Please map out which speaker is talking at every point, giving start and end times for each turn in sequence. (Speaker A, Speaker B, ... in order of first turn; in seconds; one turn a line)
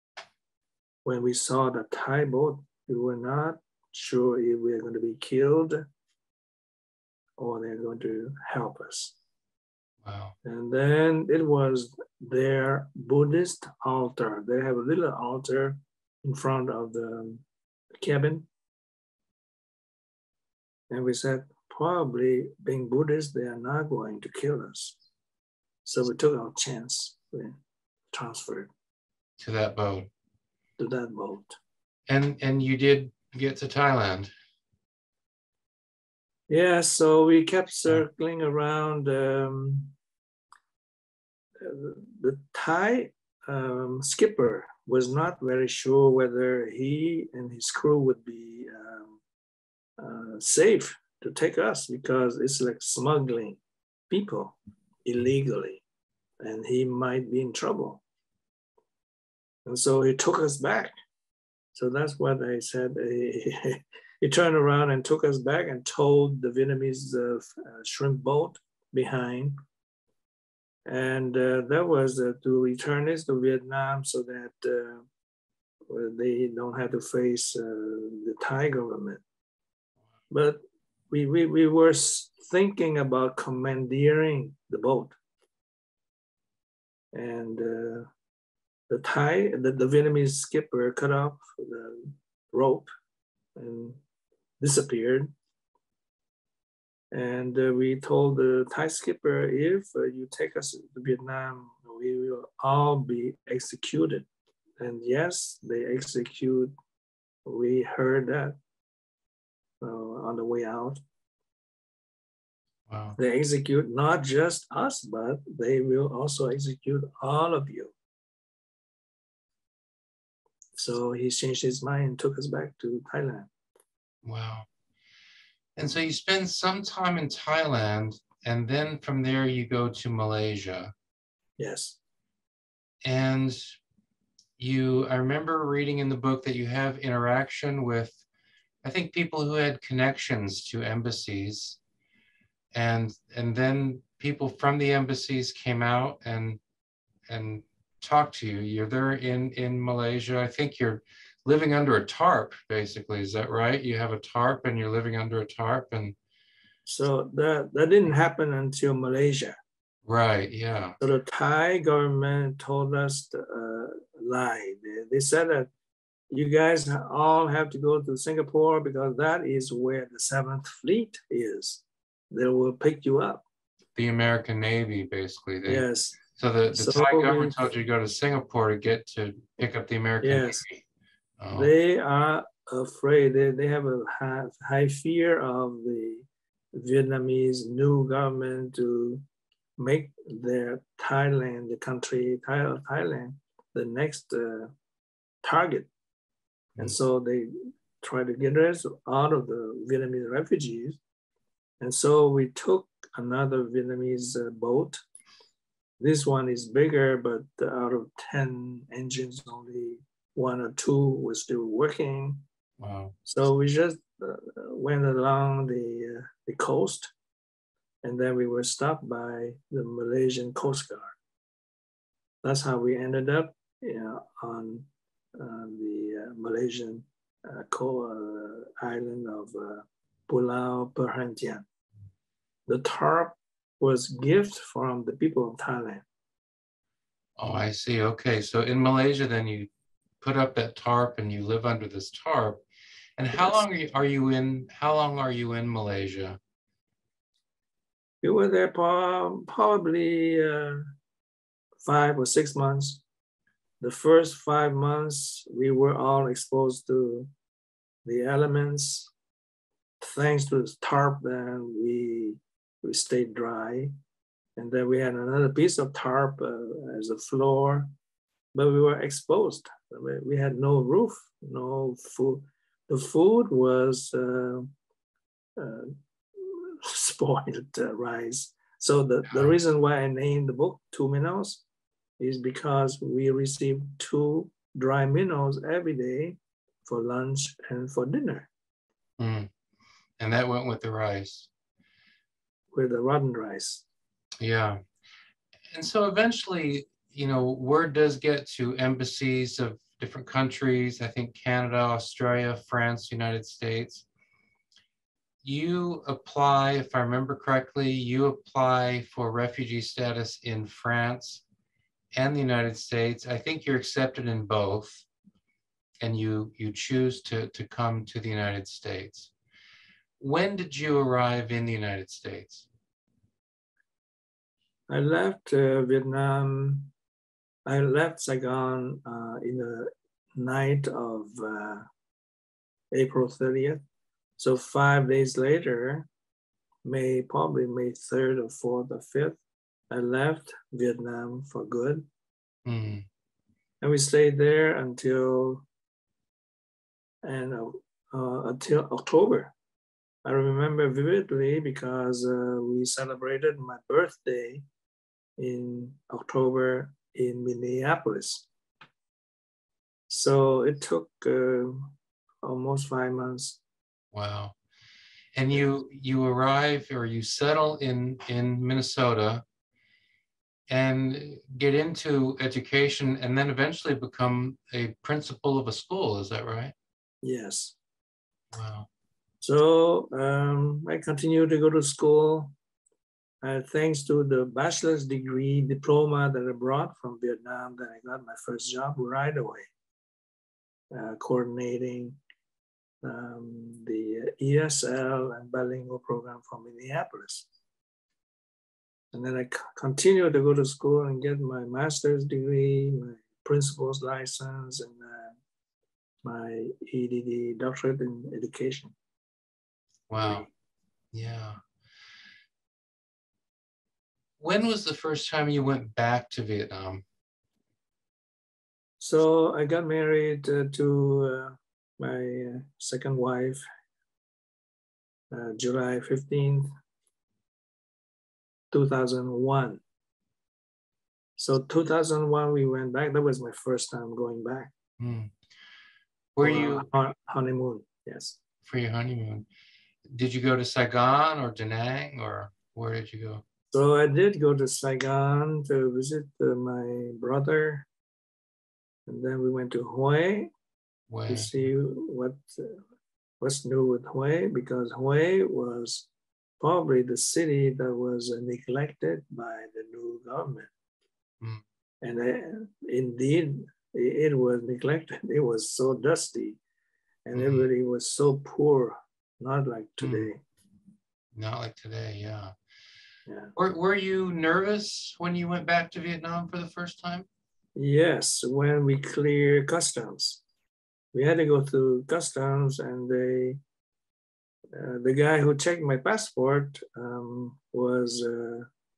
Speaker A: 1.0-5.8
Speaker A: 7.4-9.1
Speaker B: 10.0-10.3
Speaker A: 10.4-17.4
Speaker A: 18.0-18.5
Speaker A: 20.9-25.0
Speaker A: 25.8-27.6
Speaker A: 28.1-28.7
Speaker B: 29.4-30.1
Speaker A: 30.8-31.6
Speaker B: 32.1-34.3
Speaker A: 36.5-39.9
Speaker A: 41.6-49.2
Speaker A: 50.0-55.8
Speaker A: 56.4-58.0
Speaker A: 59.6-60.9
Speaker A: 61.7-69.5
Speaker A: 70.8-75.0
Speaker A: 75.9-79.2
Speaker A: 80.3-85.2
Speaker A: 87.1-88.1
Speaker A: 88.9-92.9
Speaker A: 93.5-94.0
Speaker A: 94.6-95.3
Speaker A: 97.1-104.3
Speaker A: 104.8-106.7
Speaker A: 107.4-108.5
Speaker A: 109.8-111.0
Speaker B: 112.9-113.2
Speaker A: 113.2-117.9
Speaker A: 120.8-123.5
Speaker B: 124.2-124.7
Speaker B: 125.8-130.9
Speaker A: 131.6-132.0
Speaker B: 133.0-133.8
Speaker B: 134.6-138.2
Speaker B: 138.8-141.8
Speaker B: 142.7-146.6
Speaker B: 147.3-156.2
Speaker A: 156.9-159.6
Speaker B: 160.0-161.0
Speaker A: 161.0-165.7
Speaker A: 166.3-173.4
Speaker B: 173.9-180.8
Speaker A: 175.7-176.2
Speaker A: 176.7-177.7
Speaker A: 180.2-180.6
Speaker B: 181.4-181.7
Speaker A: 181.5-189.2
Speaker A: 189.8-194.7
Speaker A: 195.4-195.9
Speaker A: 196.8-201.0
Speaker A: 201.8-205.0
Speaker A: 206.0-212.4
Speaker B: 212.8-213.2
Speaker A: 213.2-217.1
Speaker A: 218.0-221.2
Speaker A: 222.4-231.6
Speaker A: 232.7-236.0
Speaker B: 237.4-239.7
Speaker B: 240.2-242.6
Speaker B: 243.2-246.4
Speaker A: 243.3-243.6
Speaker A: 248.2-250.9
Speaker A: 251.8-253.0
Speaker A: 253.8-257.3
Speaker A: 258.0-259.1
Speaker A: 260.0-263.9
Speaker A: 264.6-267.9
Speaker A: 268.5-274.7
Speaker A: 275.6-281.6
Speaker B: 279.3-279.6
Speaker A: 282.2-288.5
Speaker B: 289.2-289.5
Speaker B: 290.2-291.5
Speaker A: 292.7-293.8
Speaker B: 294.4-294.8
Speaker B: 295.7-304.1
Speaker B: 305.4-311.4
Speaker B: 312.1-315.0
Speaker B: 316.0-319.3
Speaker B: 320.2-322.7
Speaker A: 324.9-326.9
Speaker A: 327.6-331.9
Speaker A: 332.9-333.8
Speaker A: 334.4-336.1
Speaker A: 336.8-339.4
Speaker A: 339.9-342.1
Speaker B: 342.6-343.1
Speaker A: 343.8-345.6
Speaker A: 347.2-349.5
Speaker A: 350.2-354.6
Speaker A: 355.4-358.5
Speaker A: 360.1-363.6
Speaker B: 364.1-364.6
Speaker B: 365.3-369.4
Speaker B: 370.7-376.7
Speaker A: 377.2-377.8
Speaker B: 378.5-378.9
Speaker A: 379.4-382.5
Speaker A: 383.4-389.7
Speaker A: 390.9-392.2
Speaker A: 393.0-397.5
Speaker A: 399.1-405.4
Speaker A: 406.2-408.9
Speaker B: 410.1-410.5
Speaker A: 410.2-410.5
Speaker B: 411.1-411.6
Speaker B: 414.4-417.0
Speaker A: 419.0-423.6
Speaker A: 425.3-426.7
Speaker A: 428.7-429.8
Speaker A: 431.4-434.7
Speaker B: 435.0-435.3
Speaker B: 436.4-436.9
Speaker A: 436.4-438.4
Speaker B: 438.6-439.5
Speaker B: 440.1-443.4
Speaker A: 443.7-447.9
Speaker A: 449.1-450.5
Speaker B: 451.1-451.7
Speaker A: 451.3-452.8
Speaker A: 453.4-456.1
Speaker A: 456.6-460.7
Speaker A: 462.0-466.6
Speaker A: 467.2-470.4
Speaker B: 467.4-467.7
Speaker B: 470.0-470.3
Speaker B: 471.3-472.5
Speaker A: 473.3-473.5
Speaker B: 473.6-477.3
Speaker A: 477.8-480.4
Speaker A: 481.1-483.6
Speaker A: 484.7-488.7